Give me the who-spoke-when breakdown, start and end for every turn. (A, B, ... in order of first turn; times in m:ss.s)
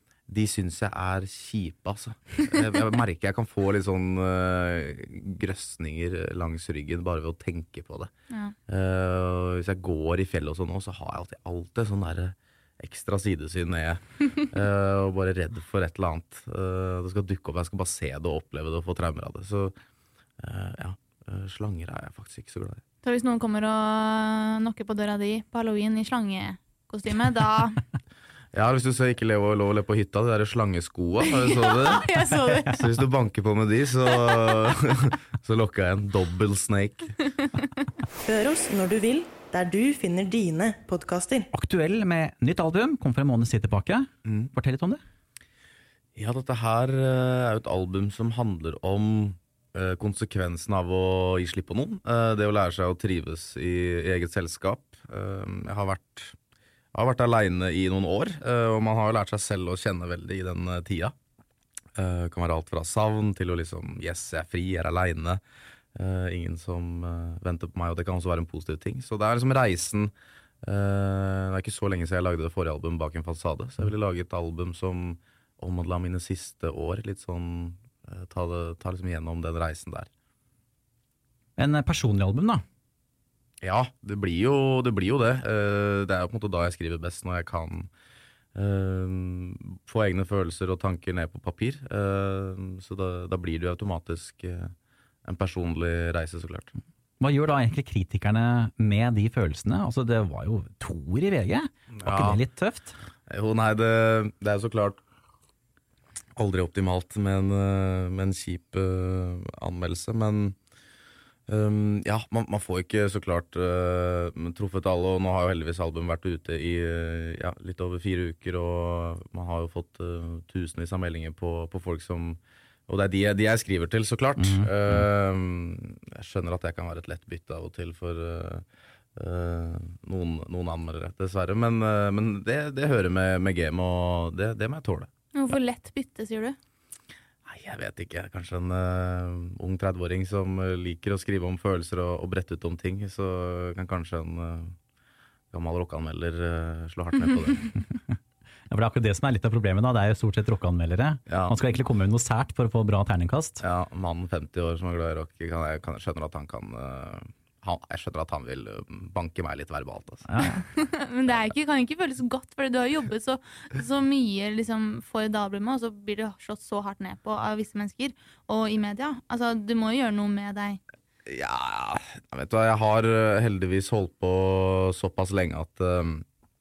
0:00.3-0:08.1 A
0:08.7-0:19.8 A
0:20.4-0:22.8 A
0:23.0-0:27.8 B
0:28.5-0:37.2 A
0:31.2-0:32.9 B
0:34.2-0:34.7 B
0:38.2-0:41.5 C
0:41.5-0:45.0 D
0:44.2-0:44.5 A
0:46.2-0:56.4 A
0:56.9-1:01.1 A
1:02.0-1:05.4 A
1:06.0-1:10.1 A
1:10.6-1:20.1 A
1:21.6-1:22.6 D
1:23.6-1:27.9 A
1:28.6-1:34.7 A
1:35.2-1:36.7 A
1:37.2-1:43.0 D
1:42.0-1:42.4 A
1:43.3-1:45.0 A
1:46.4-1:50.6 A
1:51.5-2:08.6 A
2:04.4-2:05.0 D
2:09.2-2:15.1 A
2:15.4-2:16.6 B
2:17.5-2:24.8 A
2:25.5-2:27.6 A
2:28.7-2:33.6 D
2:31.3-2:31.6 A
2:33.6-2:40.3 A
2:40.3-2:40.6 D
2:40.7-2:50.8 B
2:51.3-2:56.2 A